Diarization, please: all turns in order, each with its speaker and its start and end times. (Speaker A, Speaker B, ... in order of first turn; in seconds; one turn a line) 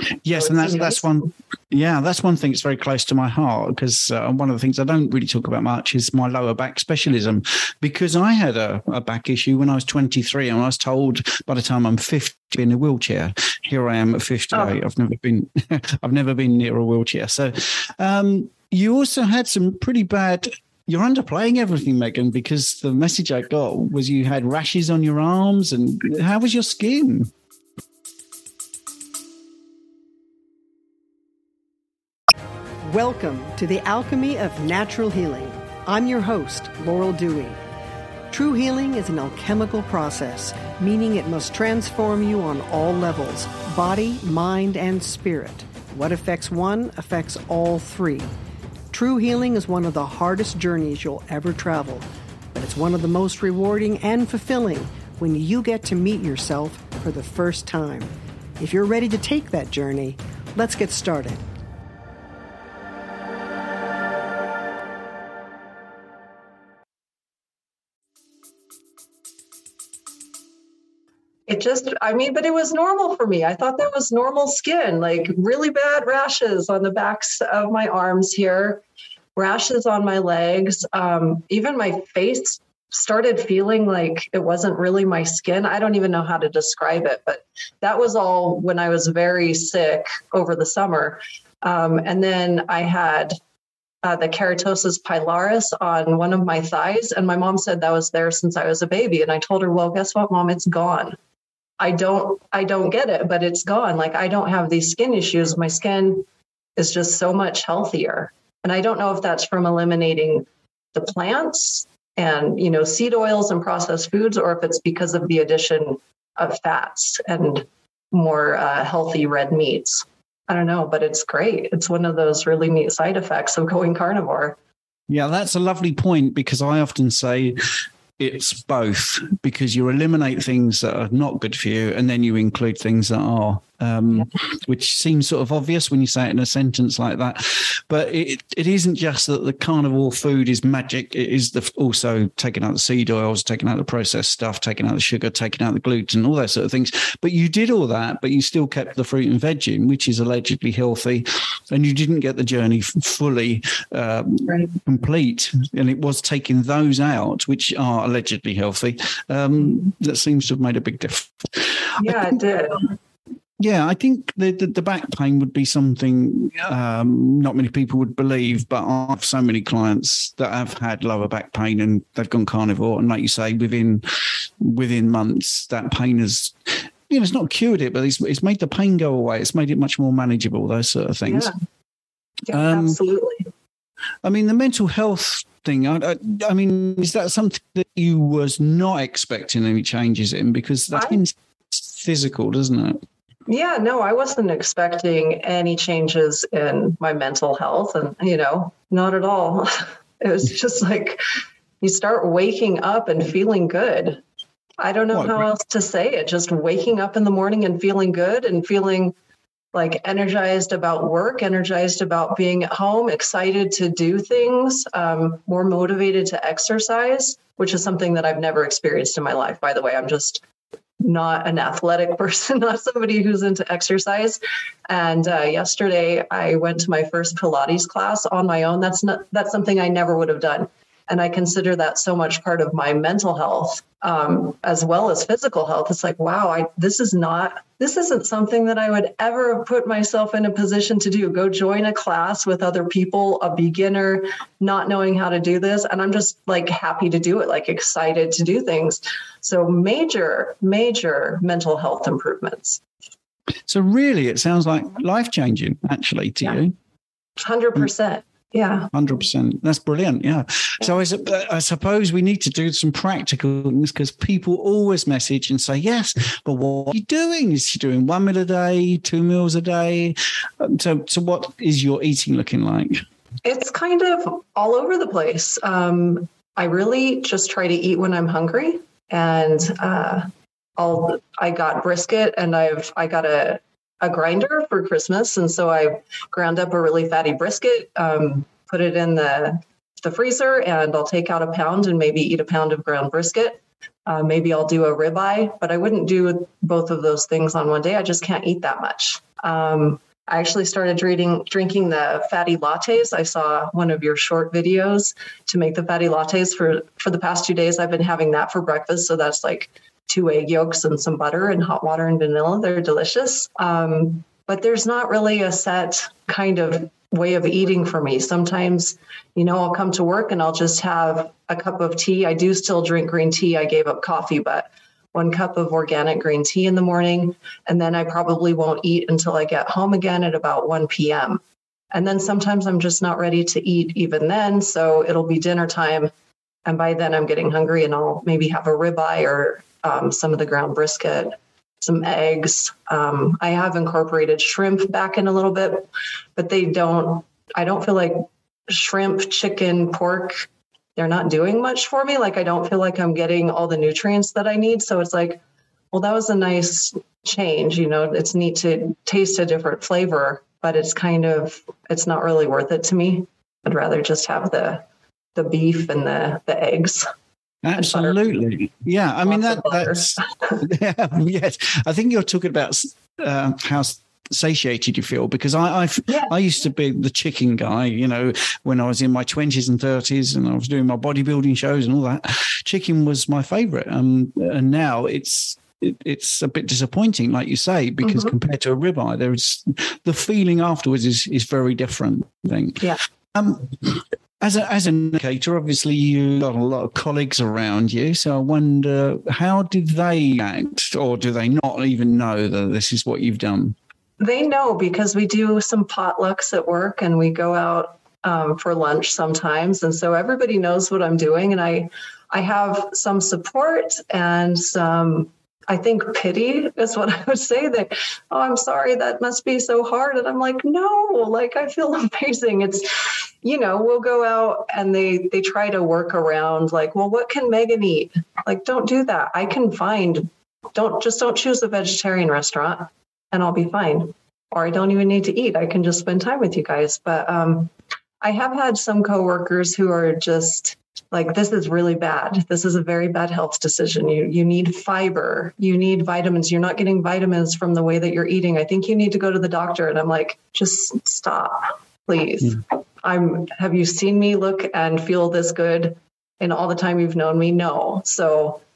Speaker A: 0.2-27.3
Speaker B: 0.3-1.3
Speaker C: 32.8-37.6
Speaker C: 38.3-48.3
Speaker C: 48.9-61.4
Speaker B: 71.5-78.8
Speaker B: 79.3-93.4
Speaker B: 94.0-101.2
Speaker B: 101.8-106.2
Speaker B: 106.8-124.5
Speaker A: 125.1-162.4
Speaker B: 162.0-162.8
Speaker A: 163.6-181.5
Speaker B: 181.2-181.5
Speaker B: 182.5-183.5
Speaker A: 182.5-183.0
Speaker A: 184.2-193.0
Speaker B: 190.9-191.2
Speaker B: 193.5-201.2
Speaker B: 201.8-204.2
Speaker B: 204.8-209.1
Speaker A: 205.1-205.5
Speaker B: 209.7-220.4
Speaker B: 221.0-252.8
Speaker A: 253.7-256.7
Speaker B: 257.4-258.9
Speaker A: 258.9-273.0
Speaker B: 273.4-331.4
Speaker B: 331.9-336.1
Speaker B: 336.6-355.4
Speaker B: 355.9-364.8
Speaker B: 365.3-367.1
Speaker A: 367.6-403.8
Speaker B: 367.8-368.2
Speaker B: 369.2-370.6
Speaker B: 388.0-388.3
Speaker B: 404.2-458.6